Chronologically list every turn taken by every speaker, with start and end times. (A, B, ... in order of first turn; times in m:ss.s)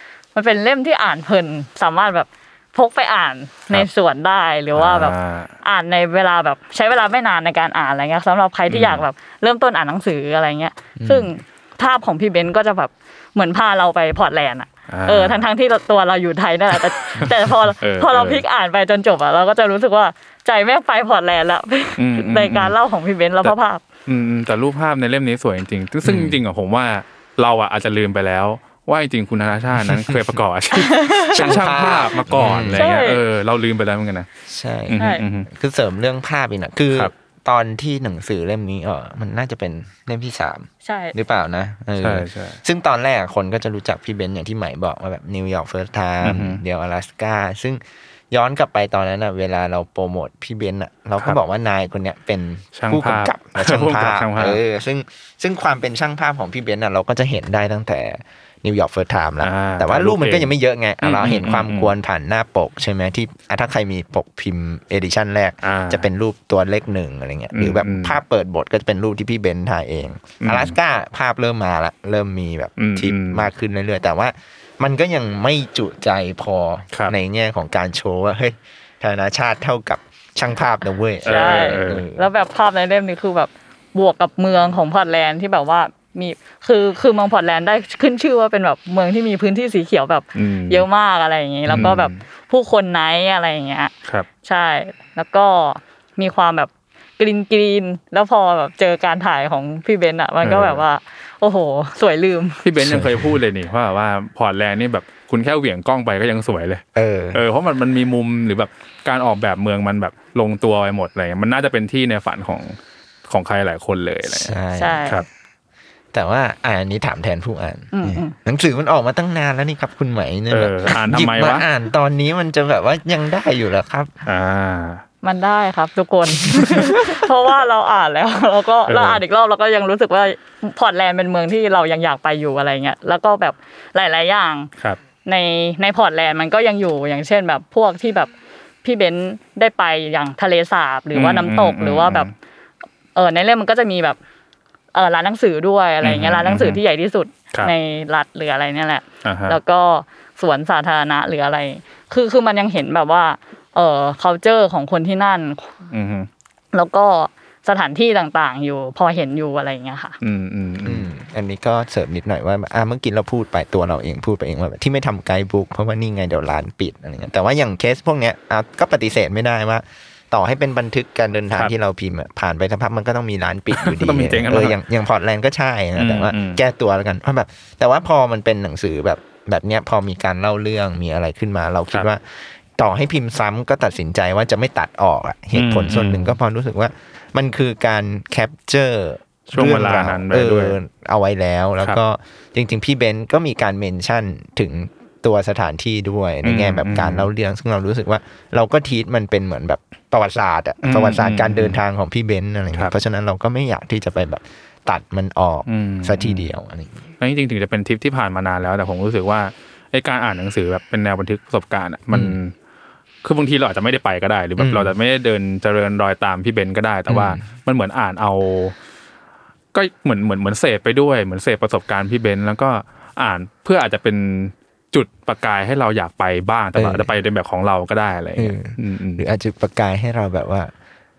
0:00.4-0:23.8 A
0:04.8-0:05.5 B
0:08.7-0:09.0 B
0:11.0-0:11.3 C
0:14.9-0:15.4 B
0:17.8-0:18.4 B
0:22.0-0:22.8 B
0:24.1-0:34.3 B
0:26.0-0:26.4 C
0:29.8-0:30.3 C
0:30.8-0:31.6 A
0:31.3-0:32.9 C
0:32.8-0:33.2 A
0:34.5-0:47.8 C
0:34.9-0:35.5 B
0:35.0-0:35.2 A
0:40.8-0:41.2 A
0:42.0-0:42.6 B
0:46.2-0:46.6 B
0:48.3-1:22.3 C
0:52.8-0:54.6 B
0:59.4-1:01.9 B
1:05.6-1:06.1 B
1:07.5-1:08.2 B
1:10.4-1:10.8 B
1:12.8-1:13.5 B
1:21.2-1:22.0 B
1:21.3-1:33.9 A
1:30.4-1:30.8 B
1:31.7-1:32.2 B
1:34.4-1:42.6 A
1:40.4-1:40.8 B
1:42.6-1:52.8 B
1:42.8-1:43.4 C
1:47.0-1:47.4 C
1:53.3-1:54.6 B
1:54.3-1:55.2 C
1:54.8-1:55.2 A
1:56.1-2:04.2 C
1:57.9-1:58.4 A
2:00.5-2:01.7 B
2:04.3-2:05.0 B
2:05.2-2:14.7 A
2:08.9-2:09.2 B
2:15.3-2:18.3 A
2:18.8-2:22.3 A
2:21.1-2:22.3 B
2:23.2-2:24.2 A
2:24.9-2:35.7 A
2:26.0-2:26.8 B
2:29.2-2:29.6 B
2:35.9-2:36.3 B
2:36.7-2:40.2 A
2:40.2-2:41.1 B
2:40.8-3:02.2 C
2:53.7-2:54.8 B
2:56.0-2:56.6 B
3:02.7-3:27.1 C
3:05.6-3:06.3 B
3:09.5-3:10.8 B
3:16.4-3:17.3 B
3:20.8-3:21.8 B
3:25.7-3:26.5 B
3:27.2-3:32.5 B
3:32.1-3:32.4 C
3:33.2-3:38.8 B
3:34.6-3:34.9 C
3:37.1-3:37.4 C
3:39.7-3:49.3 B
3:46.8-3:47.1 C
3:48.4-3:50.7 C